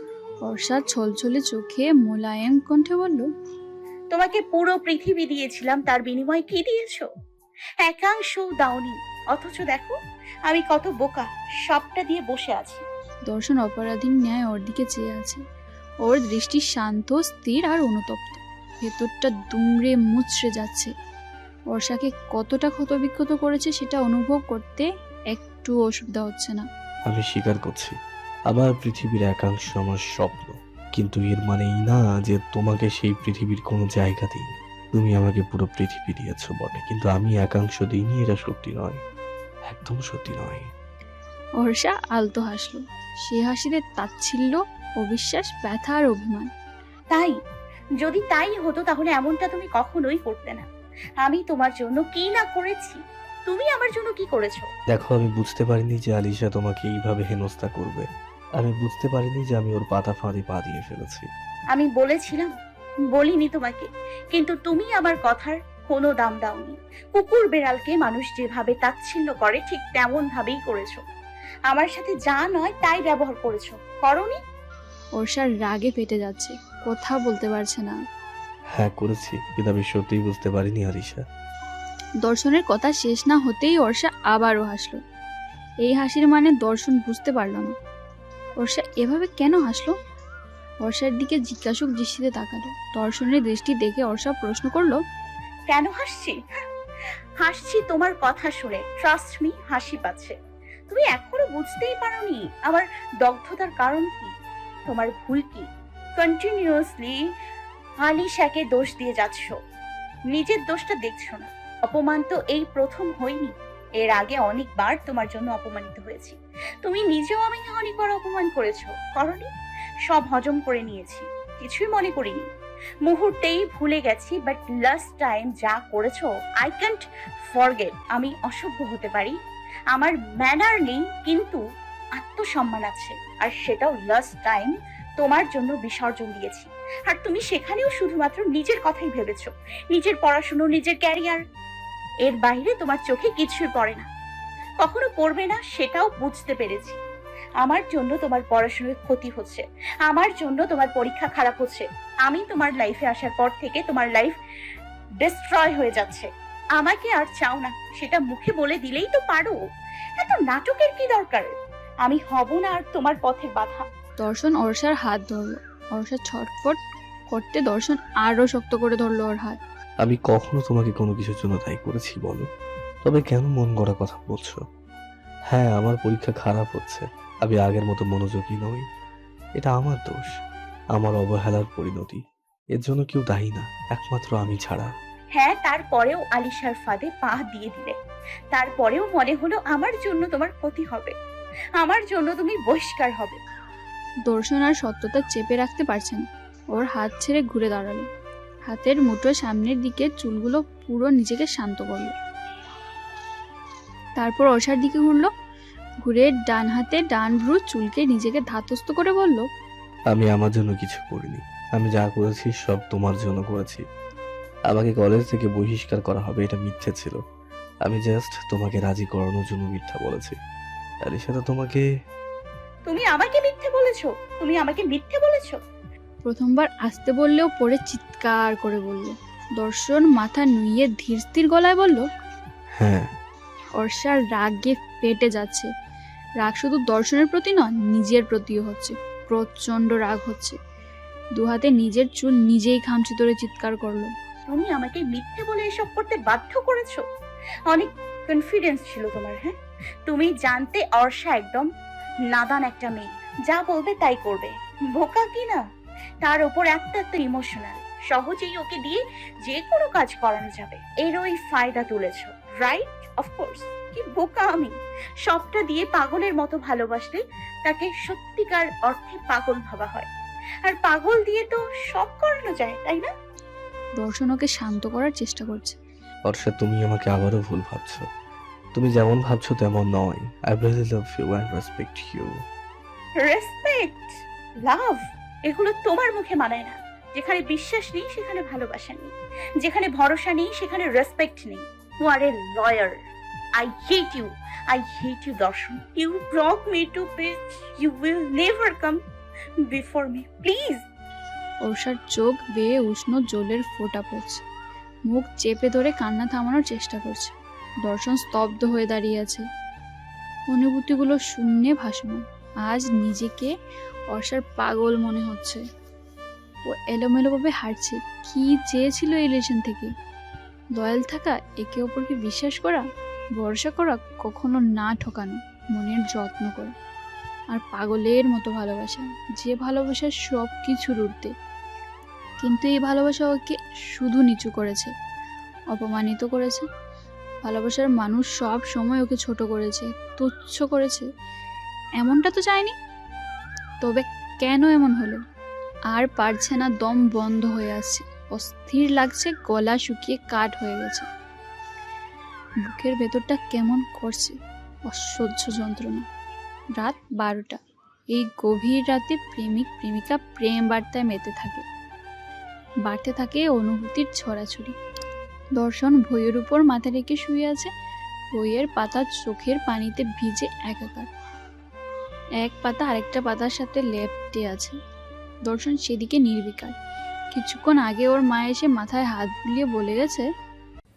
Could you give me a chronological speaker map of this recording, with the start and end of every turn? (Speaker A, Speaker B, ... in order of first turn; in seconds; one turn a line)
Speaker A: 0.4-3.3
Speaker B: 4.1-7.1
Speaker B: 7.8-12.8
Speaker A: 13.3-15.4
Speaker A: 16.0-20.9
Speaker A: 21.7-26.7
Speaker C: 27.1-28.0
Speaker C: 28.5-39.0
Speaker C: 39.7-40.7
Speaker A: 41.6-46.5
Speaker B: 47.1-47.4
Speaker B: 48.0-50.7
Speaker B: 51.2-54.7
Speaker C: 54.9-58.1
Speaker C: 58.6-61.3
Speaker B: 61.7-62.5
Speaker B: 63.1-71.0
Speaker B: 71.7-74.4
Speaker A: 75.2-78.0
Speaker C: 78.7-81.2
Speaker A: 82.2-85.0
Speaker A: 85.8-87.8
Speaker A: 88.6-90.0
Speaker A: 90.8-95.0
Speaker B: 95.7-96.6
Speaker B: 97.4-100.4
Speaker B: 100.9-104.3
Speaker B: 104.9-107.2
Speaker B: 108.0-109.6
Speaker B: 110.3-119.5
Speaker B: 120.1-122.5
Speaker B: 123.0-129.4
Speaker B: 129.9-131.6
Speaker B: 132.2-141.4
Speaker B: 142.2-144.1
Speaker B: 144.8-147.0
Speaker B: 147.6-154.4
Speaker B: 155.2-159.6
Speaker B: 160.2-163.9
Speaker A: 164.2-166.8
Speaker A: 167.3-169.6
Speaker C: 170.0-172.5
Speaker C: 173.0-174.6
Speaker C: 175.5-178.9
Speaker C: 179.6-180.3
Speaker C: 180.9-182.2
Speaker C: 182.8-184.9
Speaker B: 185.4-188.0
Speaker B: 188.5-191.1
Speaker B: 191.8-193.4
Speaker A: 194.3-198.1
Speaker A: 198.7-202.2
Speaker A: 204.2-205.3
Speaker A: 206.0-209.5
Speaker C: 210.1-213.8
Speaker C: 214.7-217.2
Speaker C: 217.8-220.4
Speaker C: 221.0-221.9
Speaker B: 222.9-225.6
Speaker A: 226.2-232.1
Speaker C: 232.8-233.1
Speaker A: 233.8-235.7
Speaker A: 236.4-240.6
Speaker A: 241.4-244.1
Speaker B: 244.5-247.1
Speaker B: 247.7-251.7
Speaker B: 252.3-255.6
Speaker B: 256.2-264.7
Speaker B: 265.2-270.1
Speaker B: 270.6-273.1
Speaker A: 274.0-275.8
Speaker C: 276.3-278.1
Speaker C: 278.8-282.4
Speaker B: 283.2-293.0
Speaker B: 293.6-299.0
Speaker B: 299.7-300.8
Speaker A: 301.6-304.4
Speaker A: 305.1-307.4
Speaker A: 307.9-309.4
Speaker A: 310.5-313.5
Speaker A: 314.1-315.6
Speaker A: 316.7-319.9
Speaker A: 320.8-322.9
Speaker A: 323.4-326.7
Speaker A: 327.5-331.3
Speaker A: 332.4-334.9
Speaker A: 335.7-336.7
Speaker A: 337.4-341.1
Speaker A: 342.0-342.8
Speaker A: 343.8-345.2
Speaker A: 345.9-351.1
Speaker A: 352.6-356.1
Speaker A: 356.8-357.6
Speaker A: 358.1-361.6
Speaker A: 362.9-364.8
Speaker A: 365.6-367.7
Speaker A: 368.4-371.1
Speaker A: 372.4-374.8
Speaker A: 375.5-376.7
Speaker A: 377.3-380.3